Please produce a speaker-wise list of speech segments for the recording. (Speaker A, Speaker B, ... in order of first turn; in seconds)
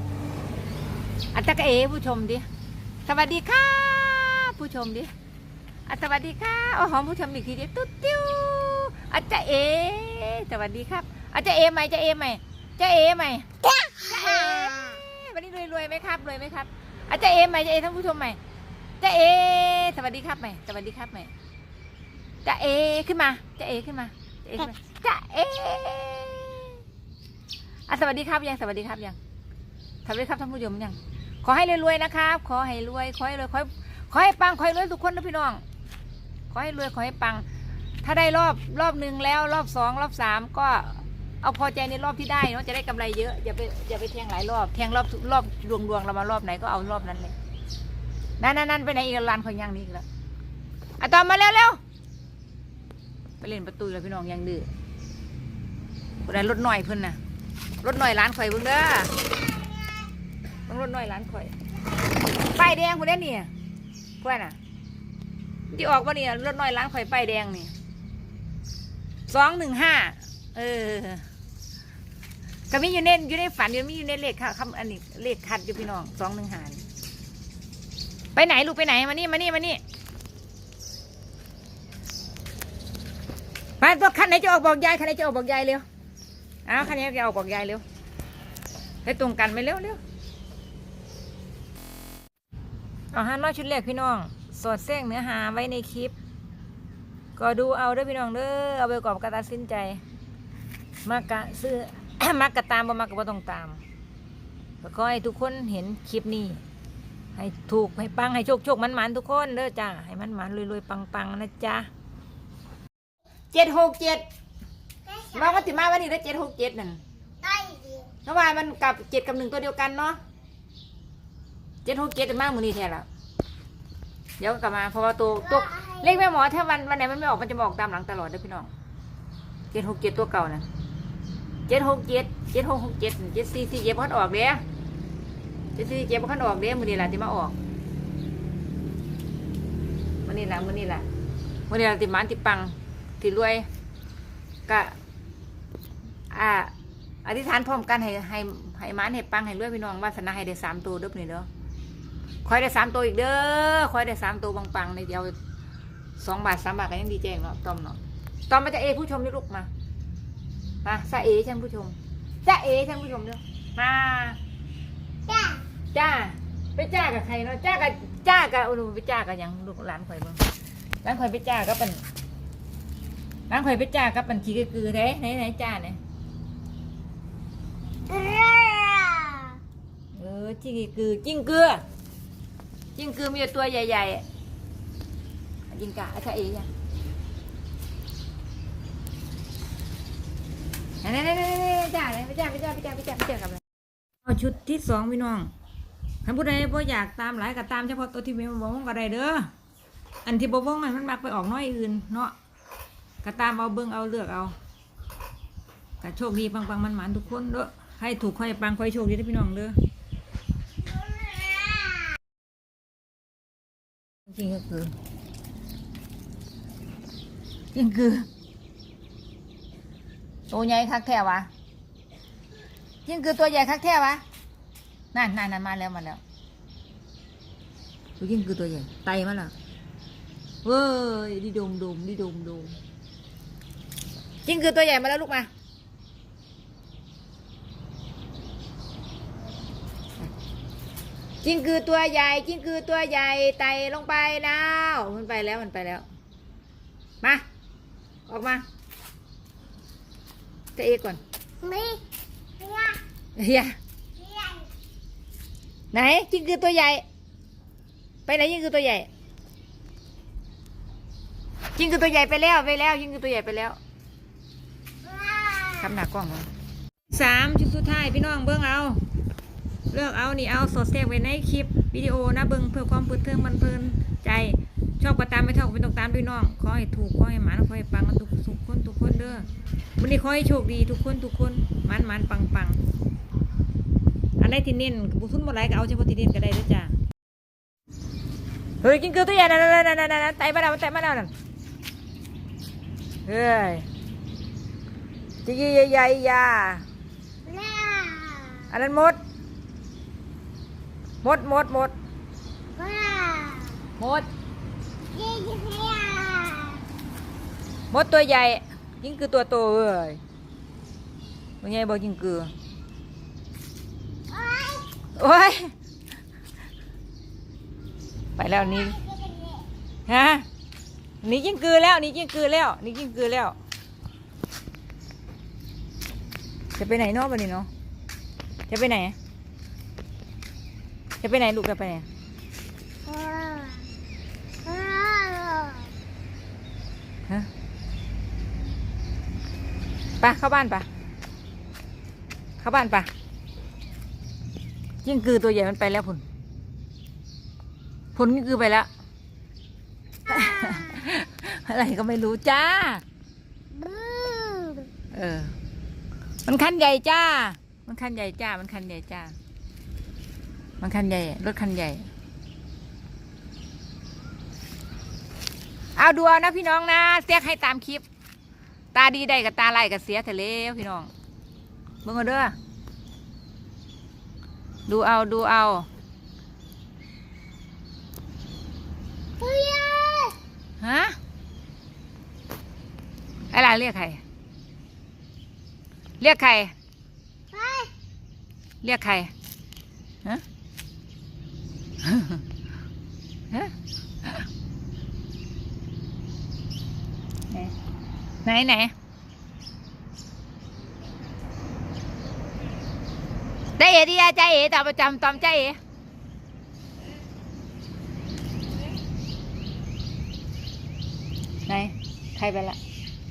Speaker A: 1.3-2.5, 3.1-5.1, 5.9-18.4, 19.0-21.3, 22.4-26.8, 27.9-29.2, 30.1-35.6, 36.5-37.5, 38.0-47.4, 48.4-50.1, 51.0-51.8, 53.4-54.7, 56.2-57.2, 57.8-59.1, 60.7-61.5, 62.4-63.5, 64.2-64.6, 65.7-67.7, 69.3-71.2, 72.7-76.8, 78.3-79.8, 83.8-85.8, 86.7-87.8, 89.0-90.0, 93.1-96.2, 97.4-100.0, 101.0-103.8, 104.8-106.6, 107.3-111.9, 113.5-114.2, 115.2-117.0, 118.2-120.2, 121.8-123.1, 124.4-128.7, 129.7-130.7, 131.7-134.6, 135.8-137.6, 140.2-141.1, 141.7-143.7, 144.7-145.0, 146.3-146.7, 147.2-151.5, 152.4-155.4, 156.2-159.7, 160.8-164.4, 165.9-170.4, 171.0-172.0, 173.5-176.0, 180.1-181.8, 183.0-184.2, 185.7-186.7, 191.0-193.6, 194.2-195.5, 196.2-199.5, 200.2-202.3, 203.2-204.6, 206.0-209.8, 214.3-214.9, 217.7-218.3, 220.5-221.5, 223.1-224.2, 225.1-226.2, 228.2-229.5, 230.6-232.8, 234.4-235.5, 241.4-246.1, 247.2-247.5, 248.3-248.7, 250.8-251.2, 253.4-253.8, 255.9-257.1, 258.3-259.1, 261.8-263.8, 265.6-266.5, 267.1-269.0, 269.9-279.5, 280.0-282.8, 284.4-287.0, 288.8-291.3, 293.3-293.9, 295.4-296.9, 298.7-299.2, 301.2-301.9, 304.0-304.3, 307.9-310.2, 311.6-312.5, 315.1-315.7, 318.4-319.0, 320.1-320.5, 321.2-323.6, 326.8-327.7, 328.7-329.2, 331.2-332.1, 340.2-340.9, 342.6-343.1, 345.0-346.2, 348.1-348.9, 350.3-353.0, 355.1-355.6, 356.5-359.4, 360.8-362.1, 366.0-368.1, 368.9-371.1, 372.0-372.6, 374.9-375.9, 380.8-381.2, 383.5-384.2, 386.2-386.8, 388.8-389.3, 392.0-392.4, 393.5-394.5, 398.4-398.9, 403.8-405.8, 411.7-412.8
Speaker B: 117.4-118.1, 165.3-165.6, 178.1-179.6, 251.6-252.0, 252.6-253.0, 254.2-254.7, 265.3-265.6, 297.5-298.7, 302.8-303.8, 305.1-306.8, 314.3-314.9, 319.0-319.6, 333.1-333.9, 334.6-335.9, 353.7-354.9, 379.4-380.4, 387.5-387.9